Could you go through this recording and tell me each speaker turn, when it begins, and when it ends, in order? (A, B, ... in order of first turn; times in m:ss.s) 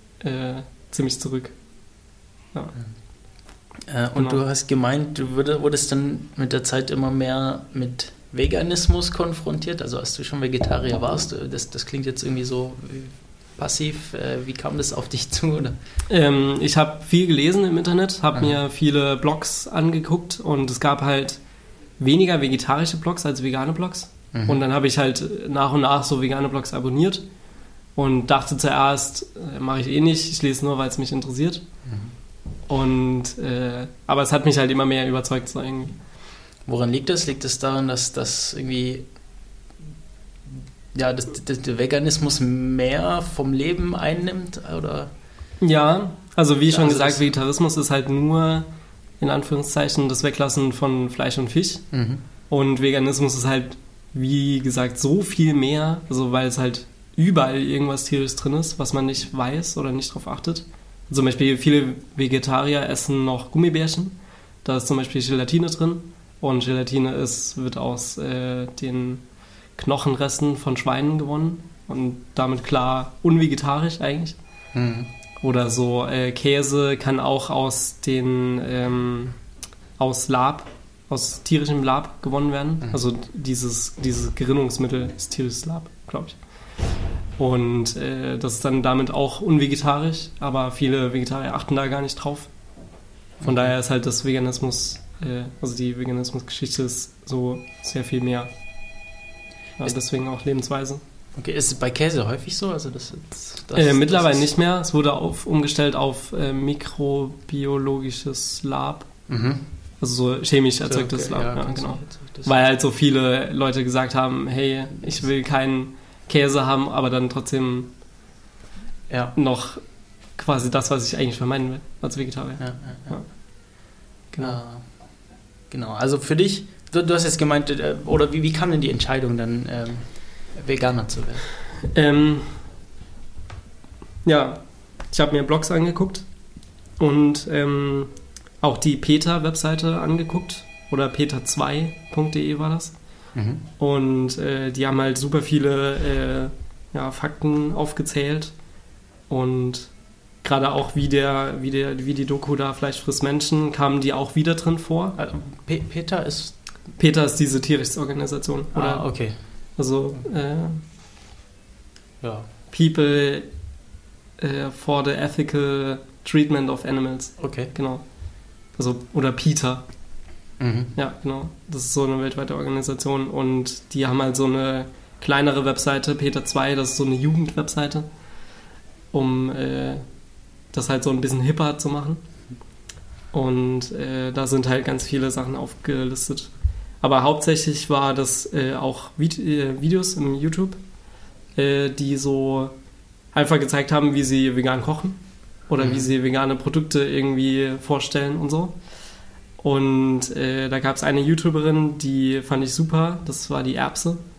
0:00.2-0:01.6 A
0:03.9-0:15.8 B
0:04.2-0:04.4 A
0:16.1-0:21.4 A
0:22.0-0:27.2 A
0:24.3-0:24.6 B
0:27.9-0:31.6 A
0:31.8-0:32.1 B
0:32.7-0:36.0 A
0:36.6-0:39.1 B
0:40.9-0:45.1 B
0:45.6-0:51.9 A
0:46.7-0:47.3 B
0:51.9-0:52.2 B
0:52.5-1:09.2 A
1:09.7-1:14.4 A
1:14.7-1:15.1 B
1:15.4-1:19.4 A
1:20.0-1:26.4 A
1:27.4-1:32.5 A
1:33.4-1:38.5 A
1:33.4-1:33.7 B
1:39.8-1:41.0 A
1:41.4-1:44.5 B
1:43.7-1:49.1 A
1:49.3-1:49.7 B
1:50.0-1:57.9 A
1:50.9-1:52.6 B
1:59.1-1:59.3 B
1:59.3-2:03.7 A
2:02.6-2:03.4 B
2:04.3-2:04.6 A
2:04.4-2:11.5 B
2:11.9-2:12.6 A
2:14.2-2:16.3 A
2:17.0-2:23.0 A
2:23.3-2:23.6 B
2:23.8-2:28.6 A
2:29.3-2:35.2 A
2:35.2-2:36.6 B
2:37.0-2:40.8 A
2:38.7-2:40.2 B
2:42.2-2:42.5 B
2:42.7-2:43.6 A
2:44.4-2:49.9 A
2:47.4-2:47.7 B
2:50.6-2:50.9 B
2:51.0-2:58.0 A
2:59.1-3:00.0 A
3:00.7-3:02.2 A
3:03.3-3:10.8 A
3:11.5-3:12.7 A
3:13.3-3:18.7 A
3:15.8-3:16.0 B
3:19.6-3:24.2 A